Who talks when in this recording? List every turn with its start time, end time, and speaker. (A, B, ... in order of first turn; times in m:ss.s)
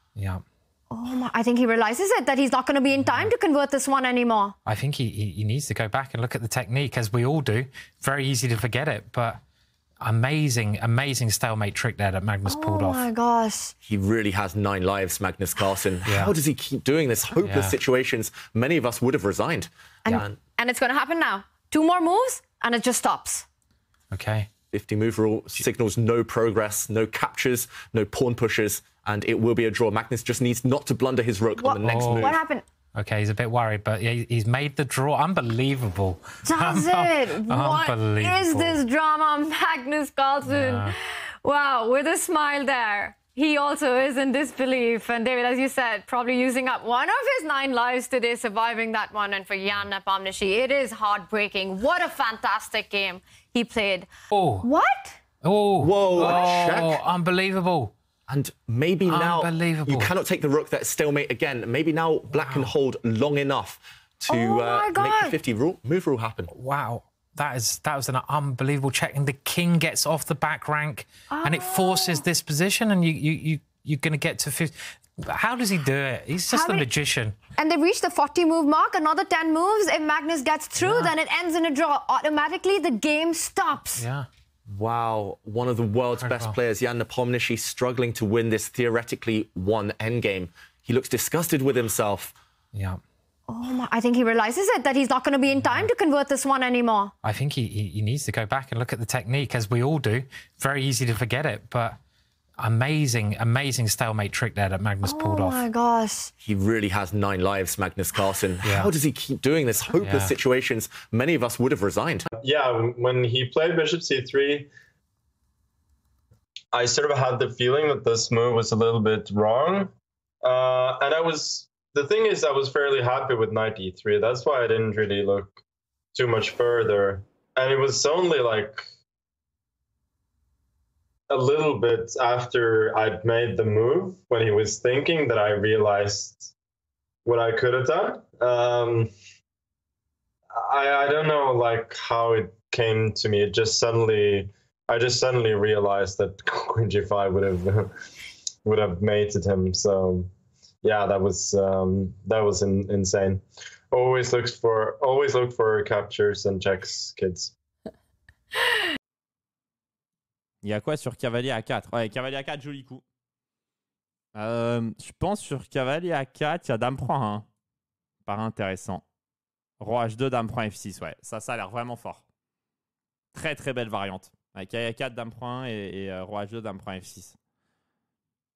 0:00.2-0:00.4 A
0:00.9-0:04.6 B
0:02.9-0:03.3 A
0:04.6-0:09.4 A
0:10.0-0:13.1 A
0:12.4-0:13.7 B
0:13.8-0:20.4 C
0:16.1-0:16.3 A
0:17.4-0:17.8 A
0:20.1-0:23.4 B
0:24.1-0:24.5 A
0:24.7-0:32.4 C
0:31.6-0:32.6 B
0:31.9-0:32.4 A
0:32.9-0:38.8 A
0:36.5-0:54.1 B
0:40.4-0:40.9 A
0:54.3-0:54.7 A
0:54.6-0:55.2 B
0:55.4-0:57.9 A
0:55.8-0:57.0 C
0:58.3-1:06.5 C
0:59.0-1:00.1 A
1:02.3-1:02.7 A
1:04.3-1:05.4 B
1:06.5-1:17.4 A
1:11.3-1:12.2 B
1:16.5-1:16.8 B
1:17.6-1:24.0 B
1:20.8-1:21.1 A
1:24.0-1:24.3 A
1:24.7-1:32.4 C
1:26.2-1:26.5 A
1:32.7-1:33.0 A
1:33.5-1:37.1 B
1:35.5-1:35.9 A
1:37.2-1:42.0 A
1:42.6-1:45.6 A
1:45.0-1:46.3 B
1:46.4-1:52.3 C
1:48.6-1:48.9 A
1:50.0-1:50.3 A
1:52.4-1:54.7 D
1:56.7-1:59.9 D
2:00.4-2:05.6 D
2:06.1-2:08.8 D
2:11.3-2:16.5 D
2:17.2-2:19.1 D
2:20.6-2:27.9 D
2:28.6-2:30.3 D
2:30.8-2:37.5 D
2:40.6-2:43.0 E
2:44.3-2:47.5 E
2:48.2-2:49.0 E
2:49.8-2:52.2 E
2:53.3-2:57.4 E